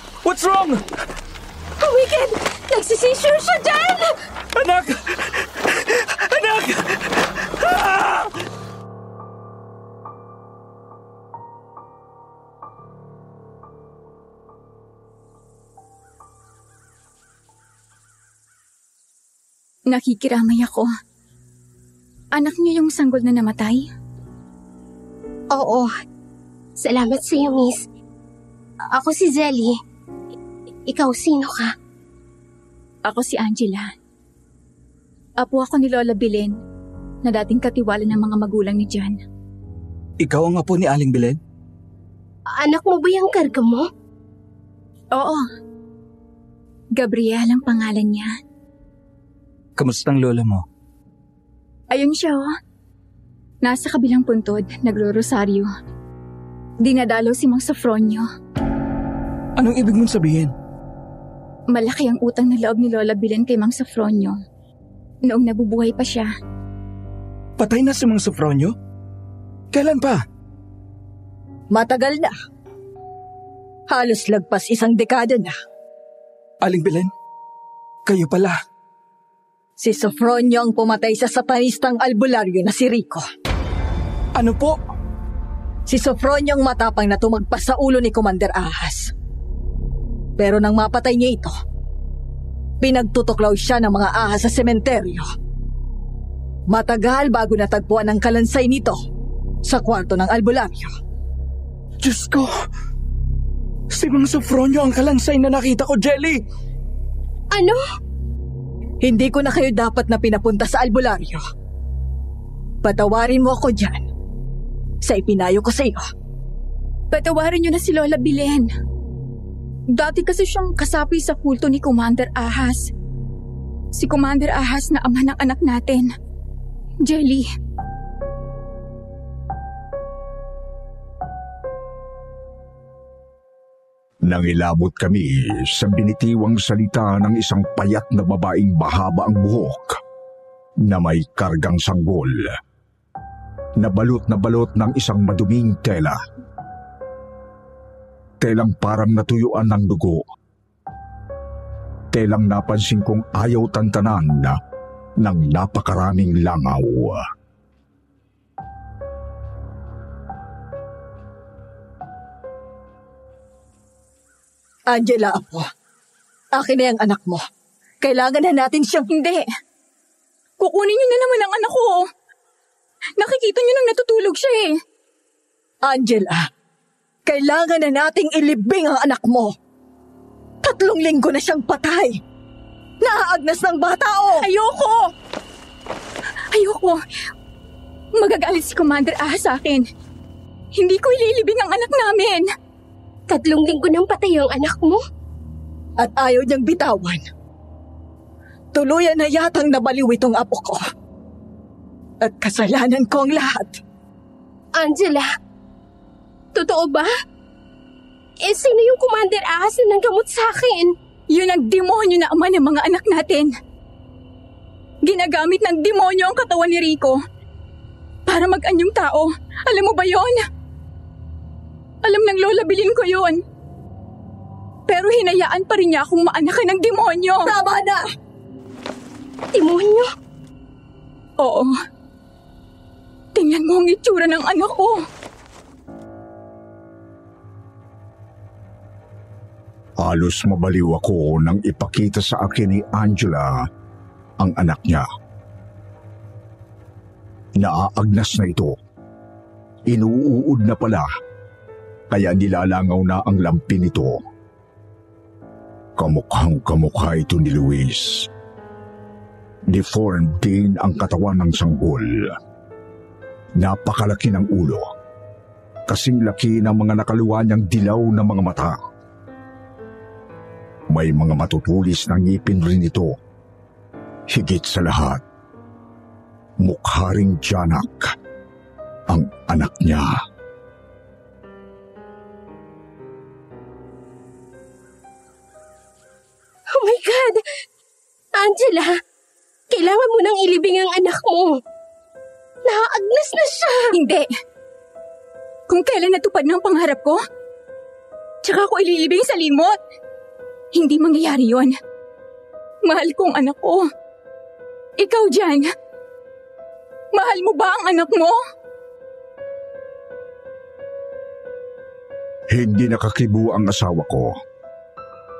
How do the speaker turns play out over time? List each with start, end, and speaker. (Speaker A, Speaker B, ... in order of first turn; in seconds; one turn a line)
Speaker A: 0.2-0.8
Speaker B: 1.8-4.2
Speaker A: 4.5-8.3
Speaker C: 19.9-20.9
Speaker C: 22.3-23.9
Speaker B: 25.5-25.9
Speaker B: 26.8-27.8
Speaker B: 28.9-29.8
Speaker B: 30.9-31.7
Speaker C: 33.0-33.9
Speaker C: 35.4-36.5
Speaker C: 37.2-39.2
Speaker A: 40.2-41.4
Speaker B: 42.5-43.9
Speaker C: 45.1-45.4
Speaker C: 47.0-48.4
Speaker A: 49.8-50.6
Speaker C: 51.9-52.5
Speaker C: 53.6-55.7
Speaker C: 56.8-58.2
Speaker A: 59.5-60.5
Speaker C: 61.7-64.3
Speaker C: 65.2-66.3
Speaker A: 67.6-68.7
Speaker A: 69.7-70.2
Speaker D: 71.7-72.3
Speaker D: 73.9-75.5
Speaker A: 76.6-77.1
Speaker A: 78.0-78.6
Speaker D: 79.8-83.2
Speaker A: 84.3-84.8
Speaker D: 85.9-89.1
Speaker D: 90.4-91.5
Speaker D: 92.8-95.2
Speaker D: 96.7-99.0
Speaker D: 99.6-100.9
Speaker A: 102.0-102.5
Speaker A: 103.9-106.4
Speaker B: 107.5-107.8
Speaker D: 109.0-111.4
Speaker D: 112.8-114.1
Speaker D: 115.0-116.1
Speaker C: 117.1-118.7
Speaker C: 119.9-122.9
Speaker C: 123.9-126.1
Speaker C: 127.0-127.5
Speaker E: 134.2-140.0
Speaker E: 140.8-142.6
Speaker E: 143.8-146.2
Speaker E: 148.4-150.2
Speaker E: 152.1-154.6
Speaker E: 155.2-157.2
Speaker D: 164.9-165.7
Speaker D: 166.5-167.4
Speaker D: 168.0-169.1
Speaker C: 169.1-169.5
Speaker C: 170.6-172.0
Speaker C: 173.2-174.8
Speaker D: 175.8-176.4
Speaker D: 177.2-179.5
Speaker D: 180.6-182.2
Speaker D: 183.0-184.4
Speaker C: 184.4-185.1
Speaker C: 186.5-187.0
Speaker C: 188.2-189.8
Speaker C: 190.7-192.4
Speaker B: 193.3-195.0
Speaker D: 196.0-197.3
Speaker D: 198.7-200.8
Speaker D: 202.2-203.8
Speaker B: 204.7-205.3
Speaker B: 206.5-207.1
Speaker B: 208.4-210.9
Speaker C: 211.3-213.5
Speaker C: 215.0-217.2
Speaker C: 218.3-220.5
Speaker C: 222.0-223.4
Speaker C: 224.9-227.5
Speaker D: 227.5-228.0
Speaker B: 229.5-230.1
Speaker C: 231.4-231.7
Speaker C: 233.3-235.0
Speaker E: 240.0-243.5
Speaker E: 244.4-245.1
Speaker E: 247.6-248.7
Speaker E: 249.9-251.1
Speaker E: 252.1-254.2
Speaker E: 256.0-258.3
Speaker E: 259.7-262.4
Speaker E: 263.6-264.9
Speaker E: 265.9-268.8
Speaker E: 270.9-273.1
Speaker E: 274.3-275.2
Speaker E: 276.6-278.1
Speaker E: 279.1-280.1
Speaker B: 286.7-287.4
Speaker B: 288.3-288.9
Speaker B: 289.7-291.6
Speaker B: 292.6-293.9
Speaker C: 293.9-294.3
Speaker C: 295.7-297.2
Speaker C: 298.4-299.8
Speaker C: 300.7-301.7
Speaker C: 302.9-303.8
Speaker C: 305.0-305.7
Speaker C: 307.1-308.4
Speaker E: 312.5-314.3